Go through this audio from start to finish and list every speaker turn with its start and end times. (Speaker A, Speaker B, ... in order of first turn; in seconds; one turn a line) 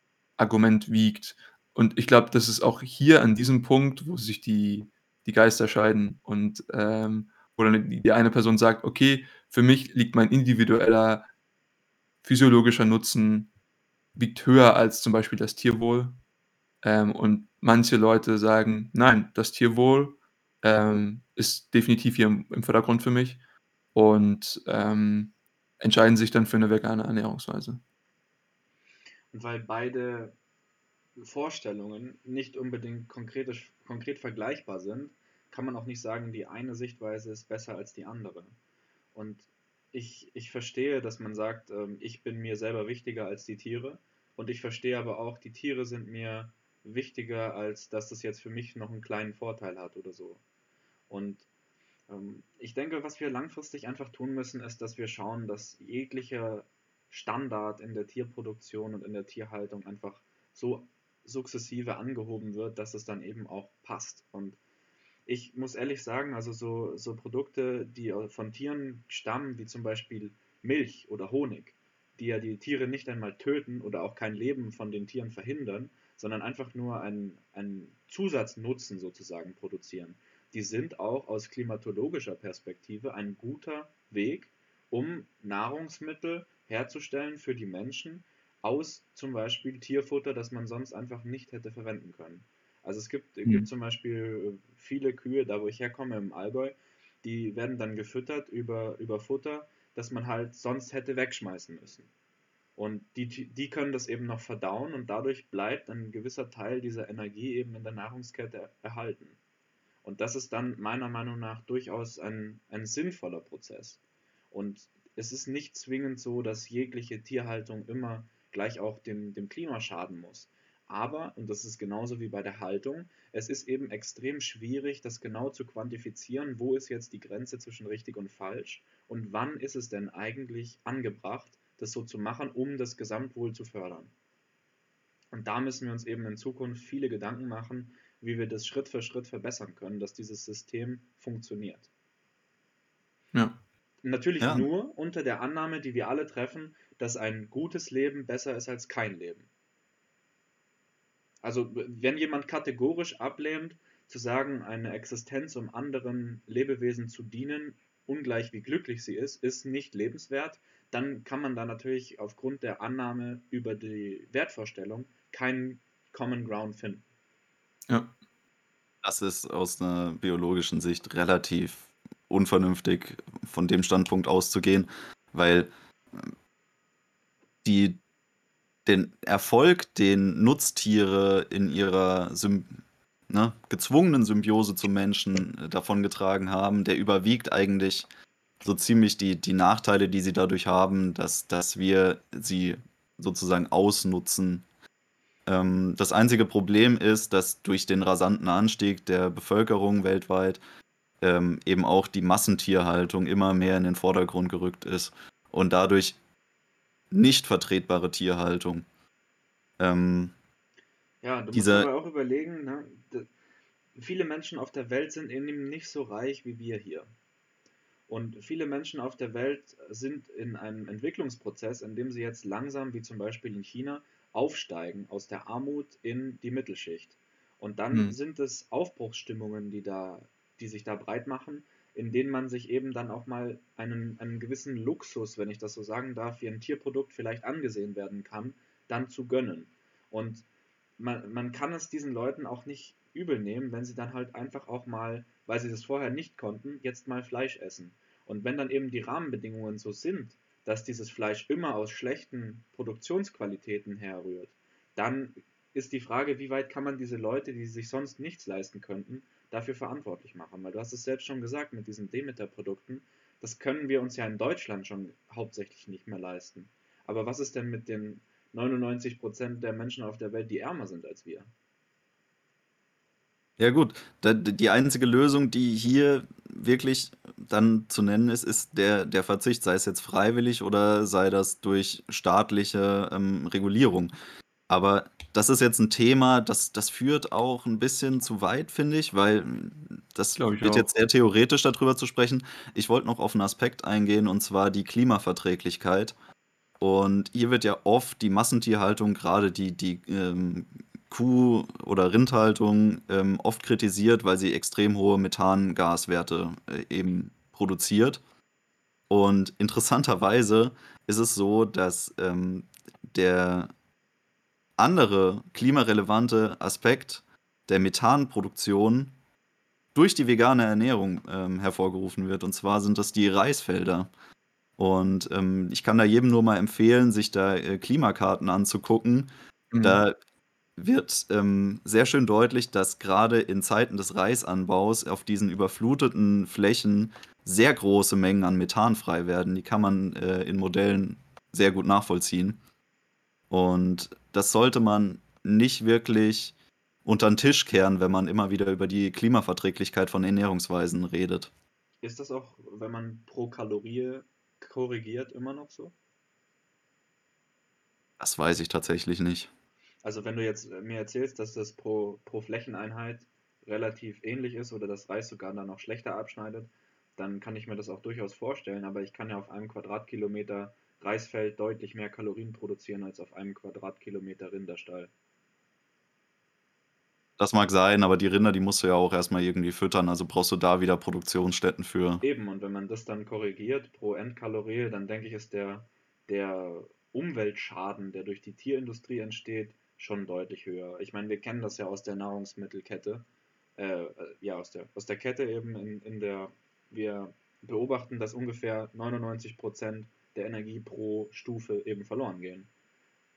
Speaker A: 0.4-11.3
Speaker A: 12.2-13.5
Speaker A: 14.2-16.2
Speaker A: 16.8-23.4
Speaker A: 23.9-27.8
Speaker B: 29.3-30.4
Speaker B: 31.2-38.5
Speaker B: 39.1-50.4
Speaker B: 51.1-51.5
Speaker B: 52.1-64.6
Speaker B: 65.3-102.1
Speaker B: 102.8-109.4
Speaker B: 110.0-114.0
Speaker B: 114.5-134.1
Speaker B: 135.3-141.9
Speaker A: 143.3-143.6
Speaker B: 144.0-149.5
Speaker C: 144.4-144.7
Speaker B: 151.4-167.0
Speaker A: 167.9-168.1
Speaker C: 169.0-176.3
Speaker C: 177.6-178.0
Speaker C: 178.8-182.8
Speaker C: 183.3-188.1
Speaker C: 188.6-194.7
Speaker C: 195.5-200.6
Speaker C: 201.2-206.2
Speaker C: 207.1-208.8
Speaker C: 209.8-210.3
Speaker B: 211.2-213.3
Speaker C: 211.5-211.9
Speaker B: 214.0-217.1
Speaker B: 218.1-240.5
Speaker B: 241.0-271.5
Speaker C: 273.6-284.1
Speaker C: 284.7-296.1
Speaker A: 290.4-290.9
Speaker C: 296.8-308.2
Speaker C: 309.1-313.7
Speaker C: 314.8-319.1
Speaker C: 319.9-324.1
Speaker C: 324.8-329.3
Speaker A: 329.7-330.0
Speaker C: 329.8-330.2
Speaker C: 330.8-342.6
Speaker C: 343.5-346.5
Speaker C: 347.1-351.5
Speaker B: 352.0-355.9
Speaker C: 358.2-359.5
Speaker B: 360.0-375.1
Speaker C: 377.4-382.2
Speaker B: 382.2-393.3
Speaker B: 393.8-402.7